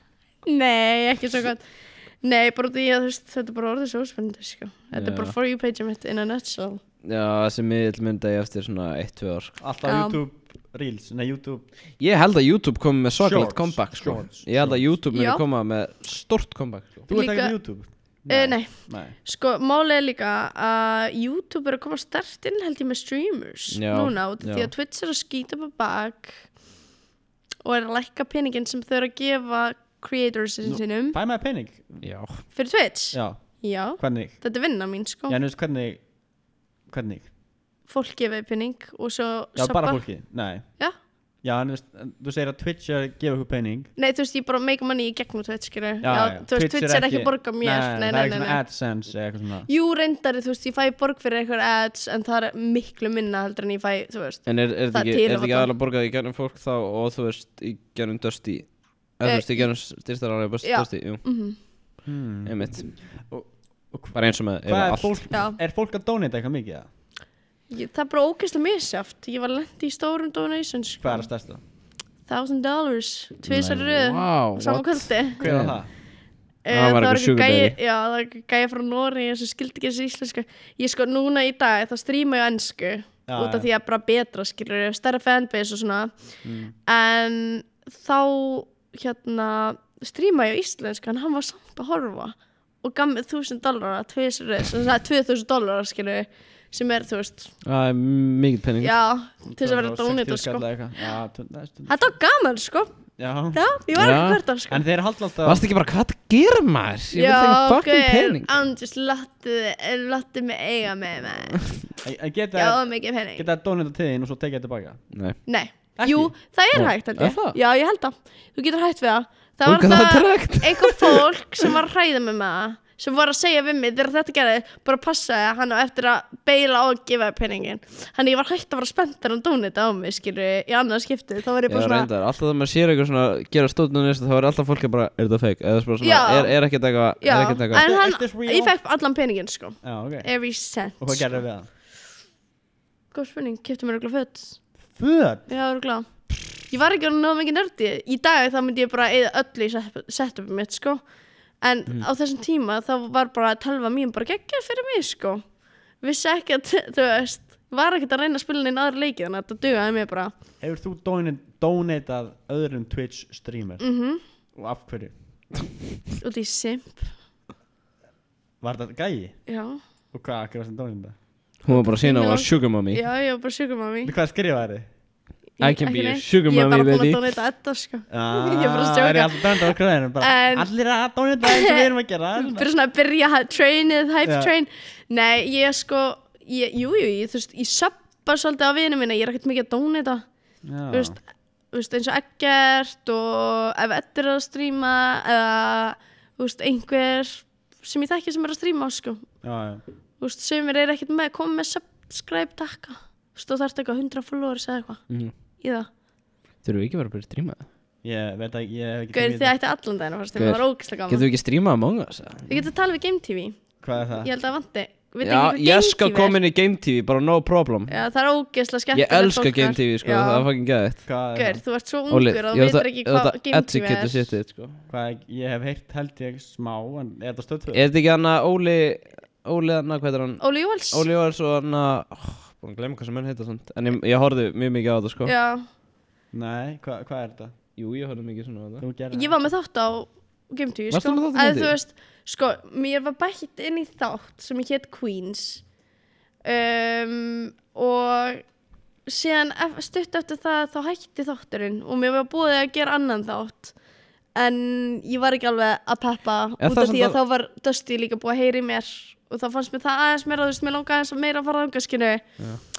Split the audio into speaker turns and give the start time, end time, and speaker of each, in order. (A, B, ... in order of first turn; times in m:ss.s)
0:00.4-0:01.6 A
0:02.2-0:06.8 A
0:04.9-0:05.3 B
0:07.0-0:09.6 B
0:09.6-0:11.6 C
0:09.8-0:10.2 A
0:12.0-0:17.1 B
0:13.2-0:14.8 C
0:15.1-0:15.4 A
0:17.1-0:19.1 C
0:17.1-0:17.5 A
0:18.3-0:26.5 A
0:23.7-0:24.7 B
0:27.6-0:31.2 A
0:30.6-0:32.0 C
0:32.0-0:32.4 B
0:32.5-0:35.4 A
0:33.1-0:34.4 C
0:35.3-0:36.0 C
0:36.9-0:37.3 C
0:37.9-0:40.1 A
0:39.6-0:40.8 C
0:41.4-0:43.9 C
0:44.0-0:48.6 A
0:46.0-0:49.7 C
0:49.7-0:55.7 A
0:54.4-1:01.2 B
0:59.2-0:59.7 A
1:00.6-1:01.6 A
1:02.0-1:06.8 C
1:02.4-1:03.0 B
1:04.1-1:05.2 B
1:05.3-1:05.6 A
1:07.7-1:11.3 A
1:11.0-1:11.6 C
1:12.2-1:15.5 A
1:13.5-1:13.8 C
1:13.8-1:15.8 B
1:15.4-1:15.9 C
1:16.6-1:26.1 A
1:16.7-1:17.8 B
1:23.3-1:23.7 C
1:26.4-1:26.7 C
1:26.8-1:37.5 A
1:37.6-1:39.0 B
1:38.8-1:40.7 A
1:39.4-1:41.9 C
1:41.9-1:42.9 A
1:43.2-1:43.6 C
1:43.5-1:44.8 A
1:44.0-1:44.4 B
1:44.7-1:45.6 C
1:45.4-1:48.5 B
1:47.1-1:51.8 A
1:52.0-1:55.0 C
1:52.5-1:53.4 A
1:55.1-1:55.4 B
1:55.4-2:12.1 A
1:56.0-1:56.3 C
1:56.7-1:57.6 B
1:59.6-2:01.2 B
2:11.7-2:17.9 B
2:16.0-2:16.6 A
2:17.2-2:21.3 A
2:17.7-2:18.7 C
2:19.8-2:20.3 C
2:21.0-2:21.7 C
2:23.1-2:24.6 A
2:24.9-2:25.5 C
2:25.5-2:31.0 A
2:31.6-2:35.5 A
2:36.0-2:40.3 A
2:40.6-2:43.8 C
2:43.8-2:44.2 A
2:44.5-2:45.1 C
2:46.2-2:47.1 A
2:48.6-2:49.4 C
2:49.5-2:49.8 A
2:50.1-2:51.2 C
2:51.6-2:53.0 B
2:51.7-2:54.1 A
2:54.0-2:54.8 C
2:55.6-3:00.7 A
2:55.6-2:57.2 B
2:58.1-3:02.7 C
3:01.4-3:10.2 A
3:04.2-3:04.5 C
3:10.6-3:11.2 C
3:10.9-3:11.2 A
3:11.7-3:19.3 A
3:19.4-3:19.8 C
3:20.2-3:25.0 A
3:25.6-3:25.9 A
3:26.6-3:27.6 B
3:28.0-3:29.5 C
3:29.1-3:31.3 A
3:30.4-3:32.5 B
3:32.5-3:36.4 A
3:33.8-3:34.3 C
3:35.2-3:38.0 B
3:37.9-3:40.5 A
3:38.9-3:41.0 B
3:41.0-3:41.6 C
3:41.3-3:44.3 A
3:42.1-3:44.8 B
3:44.9-3:47.8 C
3:47.7-3:55.3 B
3:50.4-3:51.0 A
3:55.2-3:55.6 A
3:56.3-3:57.5 C
3:57.8-3:58.8 B
3:58.8-3:59.3 C
3:59.1-4:05.6 A
4:00.9-4:01.7 B
4:06.4-4:08.5 A
4:09.0-4:13.7 A
4:14.3-4:22.2 A
4:16.6-4:17.2 B